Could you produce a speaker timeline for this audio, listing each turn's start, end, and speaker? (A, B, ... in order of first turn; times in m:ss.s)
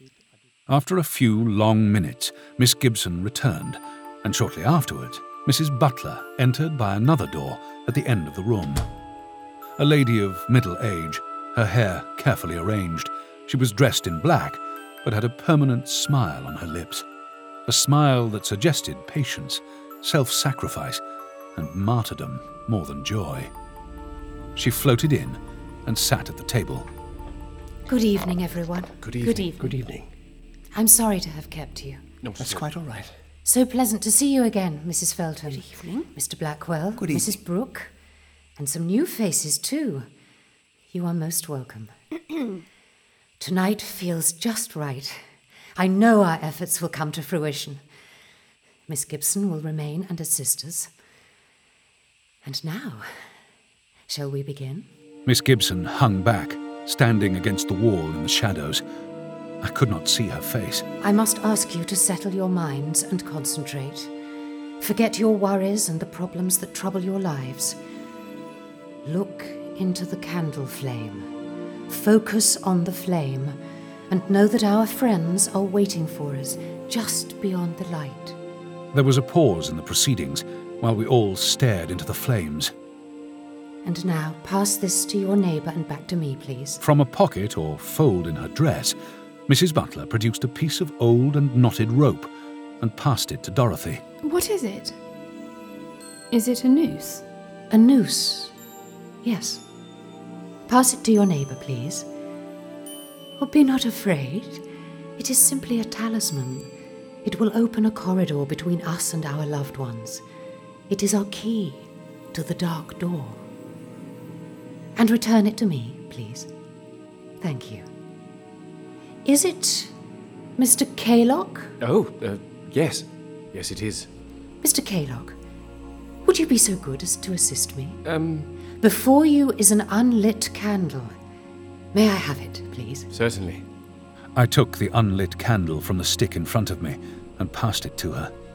0:00.7-0:08.9 A
0:09.8-0:17.0 A
0:17.7-0:21.0 A
0:21.6-0:23.5 A
0:24.6-0:26.9 A
0:27.9-0:29.8 B
0:29.2-0:30.1 C
0:30.8-0:32.0 B
0:32.2-0:32.7 D
0:32.4-0:33.2 C
0:33.4-0:37.9 B
0:35.5-0:36.0 E
0:37.0-0:37.4 C
0:38.6-0:40.1 B
0:40.9-0:41.9 B
0:43.4-0:45.2 B
0:45.8-0:47.8 B
0:48.9-0:50.9 B
0:52.4-0:53.2 B
0:54.1-0:54.9 B
0:55.3-0:58.8 A
0:59.6-1:00.9 A
1:01.0-1:04.1 B
1:04.8-1:07.8 B
1:09.0-1:11.3 B
1:11.9-1:13.6 B
1:14.1-1:18.4 B
1:18.9-1:22.7 A
1:23.8-1:26.8 B
1:26.8-1:29.0 A
1:29.5-1:34.0 A
1:34.2-1:35.0 E
1:36.3-1:37.2 E
1:37.7-1:38.6 B
1:39.2-1:39.6 B
1:40.7-1:42.1 B
1:43.4-1:44.6 B
1:45.2-1:46.7 B
1:47.2-1:50.2 B
1:50.9-1:53.4 B
1:55.0-1:56.5 B
1:57.4-1:57.9 B
1:59.2-2:00.0 B
2:00.6-2:01.8 B
2:01.8-2:04.1 D
2:04.6-2:05.4 B
2:06.2-2:08.0 B
2:08.0-2:08.5 D
2:08.8-2:11.2 B
2:11.9-2:13.1 B
2:13.1-2:13.6 D
2:14.4-2:18.3 A